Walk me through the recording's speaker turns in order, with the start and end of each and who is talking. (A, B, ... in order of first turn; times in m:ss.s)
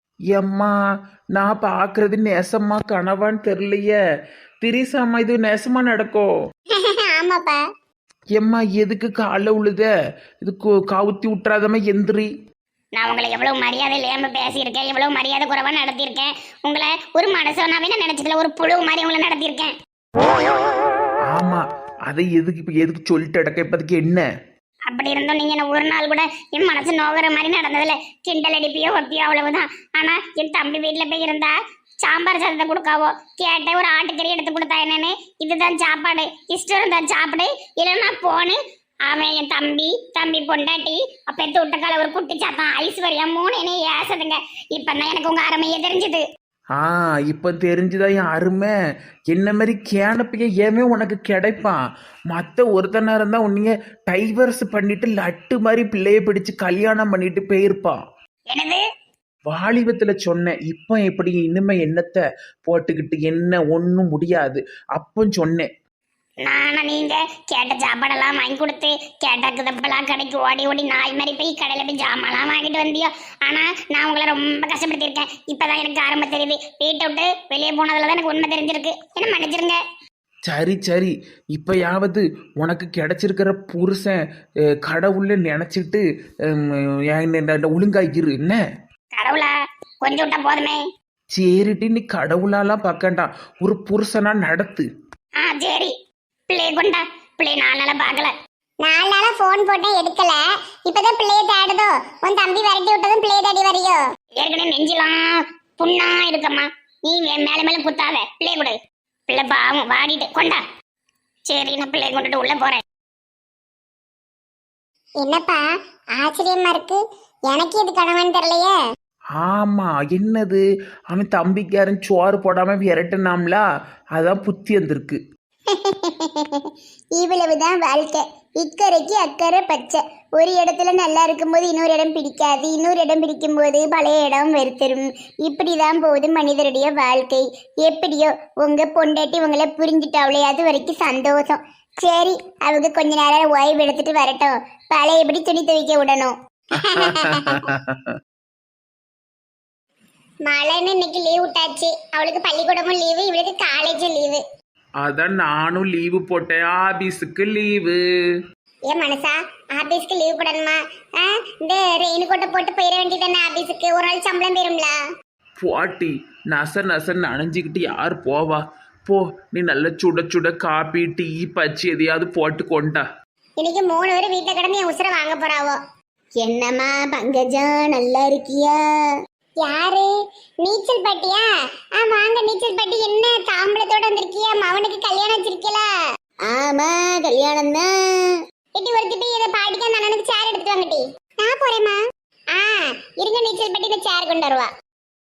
0:00.3-0:00.7 A
0:01.4-0:04.0 A
0:04.6-0:06.3 A
0:06.7-0:07.6 B
0:08.4-0:09.9 A
0:10.4-0:12.3 A
0:13.0-0:19.7 B
0:21.3-0:24.2 A
0:24.9-0:46.2 B
0:46.8-0:48.7 A
0:49.3-0:51.8 A
0:52.3-0:58.0 A
0:58.5-0:58.8 B
0:59.5-1:05.7 A
1:06.4-1:19.8 B
1:20.5-1:24.2 A
1:24.8-1:28.6 A
1:29.2-1:30.8 B
1:31.3-1:34.9 A
1:35.4-1:35.9 B
1:36.5-1:48.8 B
1:49.3-1:50.6 B
1:51.5-1:52.8 B
1:55.2-1:55.6 B
1:56.2-1:58.8 B
1:59.4-2:03.6 A
2:04.2-2:05.2 A
2:05.7-2:06.6 B
2:07.2-2:27.6 B
2:26.8-2:27.9 A
2:30.4-2:34.4 B
2:35.0-2:38.0 A
2:38.9-2:45.0 B
2:45.6-2:53.0 A
2:53.6-2:55.8 B
2:56.4-2:59.1 B
2:59.6-3:00.1 B
3:00.6-3:05.9 B
3:06.5-3:12.0 B
3:12.5-3:14.7 B